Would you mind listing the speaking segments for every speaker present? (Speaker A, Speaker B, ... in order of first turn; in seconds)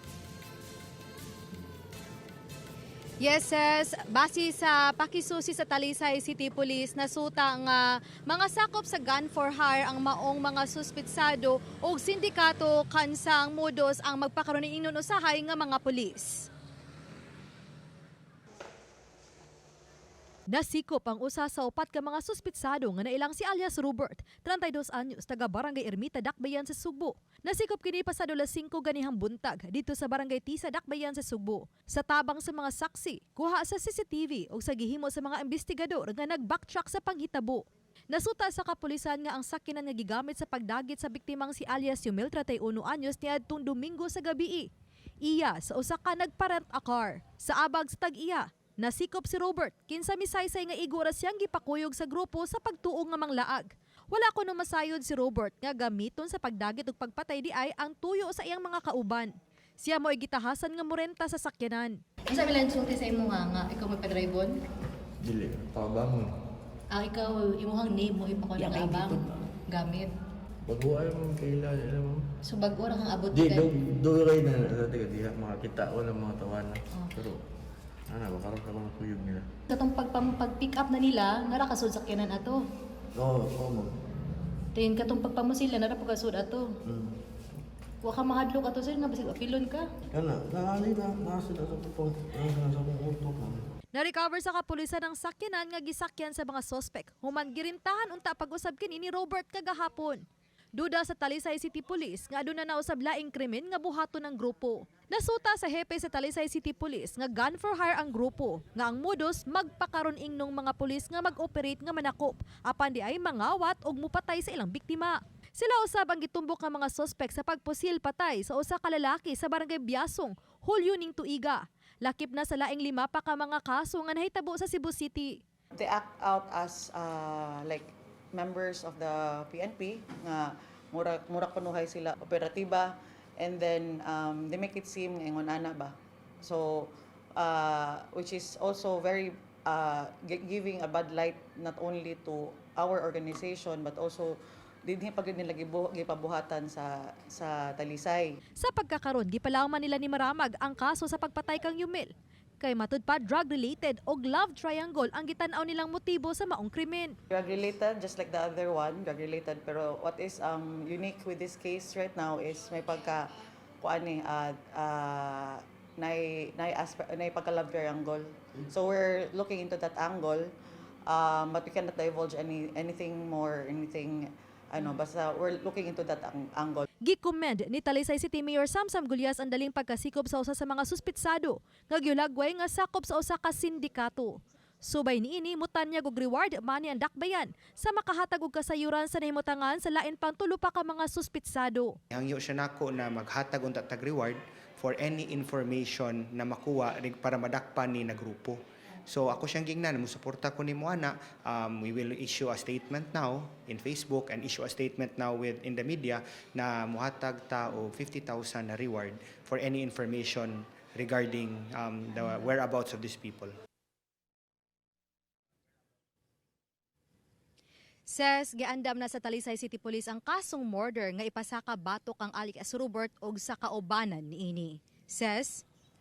Speaker A: 3.2-7.8, 8.3-16.4, 20.5-44.7, 45.2-62.0, 93.9-100.2, 100.8-125.4, 148.6-157.2, 177.0-192.0, 218.5-220.5, 221.1-223.7
Speaker B: 62.3-64.5, 66.9-70.1, 72.5-73.7, 79.7-82.6, 84.8-86.7, 88.0-89.8
Speaker C: 65.2-66.3, 68.6-69.2, 70.7-72.2, 73.3-77.4, 78.1-79.5, 83.2-83.9, 86.9-87.2, 90.1-93.7
Speaker D: 125.8-148.4, 157.3-170.5, 171.1-176.9
Speaker E: 192.1-213.5